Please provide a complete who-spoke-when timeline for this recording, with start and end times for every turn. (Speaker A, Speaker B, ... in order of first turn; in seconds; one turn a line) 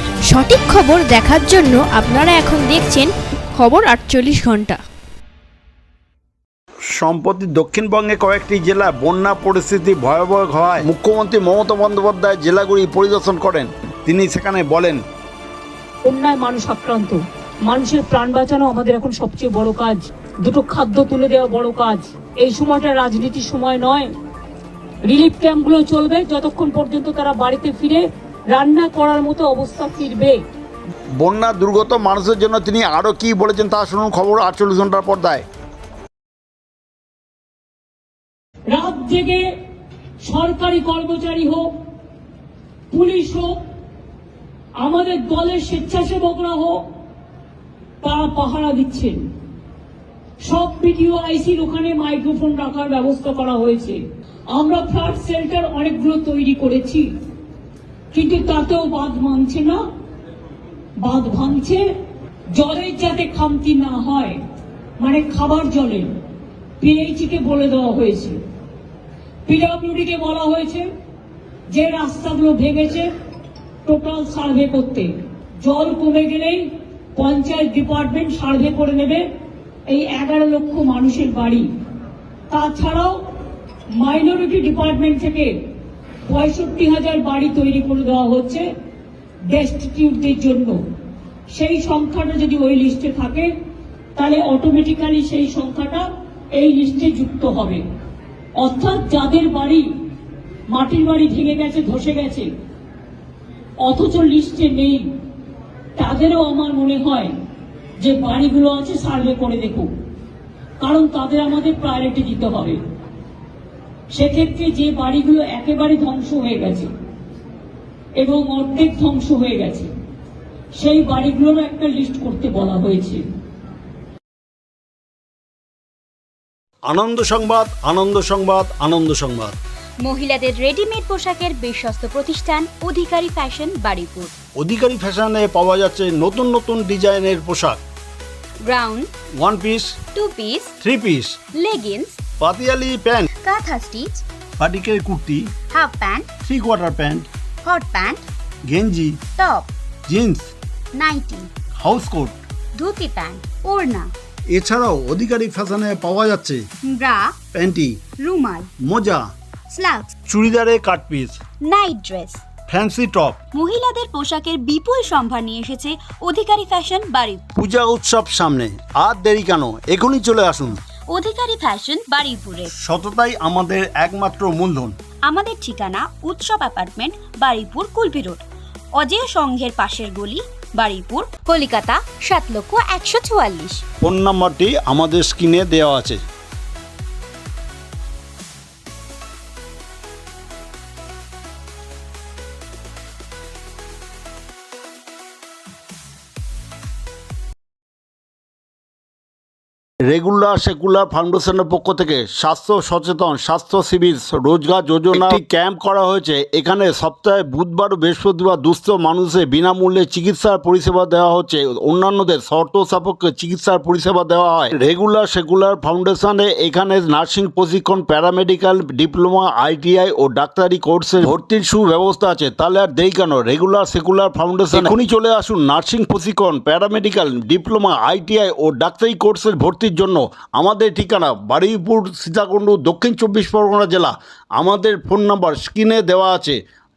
Speaker A: 0.3-4.8
Speaker B: 6.9-15.0
Speaker C: 16.1-24.1
Speaker C: 25.1-30.4
Speaker B: 31.2-35.5
Speaker C: 38.7-39.5
Speaker C: 40.2-41.7
Speaker C: 42.9-43.6
Speaker C: 44.8-46.8
Speaker C: 48.0-49.3
Speaker C: 50.4-54.0
Speaker C: 54.5-57.1
Speaker C: 58.1-59.8
Speaker C: 61.0-61.9
Speaker C: 62.5-64.4
Speaker C: 65.0-66.1
Speaker C: 66.8-68.4
Speaker C: 69.5-70.9
Speaker C: 71.7-73.1
Speaker C: 73.8-79.3
Speaker C: 79.9-81.7
Speaker C: 82.5-83.2
Speaker C: 84.0-85.5
Speaker C: 86.2-88.7
Speaker C: 89.5-90.8
Speaker C: 91.5-93.5
Speaker C: 94.2-97.8
Speaker C: 98.6-99.9
Speaker C: 100.7-102.5
Speaker C: 103.8-105.1
Speaker C: 106.0-107.3
Speaker C: 108.0-109.9
Speaker C: 110.8-112.8
Speaker C: 114.1-116.9
Speaker C: 118.2-119.9
Speaker C: 120.8-123.2
Speaker B: 126.9-129.6
Speaker D: 130.0-134.3
Speaker B: 134.6-137.8
Speaker D: 138.7-139.1
Speaker B: 139.4-140.0
Speaker D: 140.2-140.8
Speaker B: 140.8-141.4
Speaker D: 141.6-142.2
Speaker B: 142.4-143.3
Speaker D: 143.4-144.2
Speaker B: 144.6-145.5
Speaker D: 145.7-146.3
Speaker B: 146.4-147.3
Speaker D: 147.6-148.3
Speaker B: 148.7-149.2
Speaker D: 149.4-149.7
Speaker B: 150.1-150.5
Speaker D: 151.0-151.5
Speaker B: 151.8-152.3
Speaker D: 152.8-154.1
Speaker B: 154.5-156.6
Speaker D: 156.9-157.4
Speaker B: 157.5-158.0
Speaker D: 158.2-158.7
Speaker B: 158.8-159.2
Speaker D: 159.7-160.1
Speaker B: 160.3-161.4
Speaker D: 161.7-162.4
Speaker B: 162.7-163.4
Speaker D: 163.5-167.4
Speaker B: 167.6-170.8
Speaker D: 171.1-172.7
Speaker B: 172.7-174.9
Speaker D: 175.3-178.4
Speaker D: 179.0-183.8
Speaker B: 184.0-186.2
Speaker B: 200.1-236.6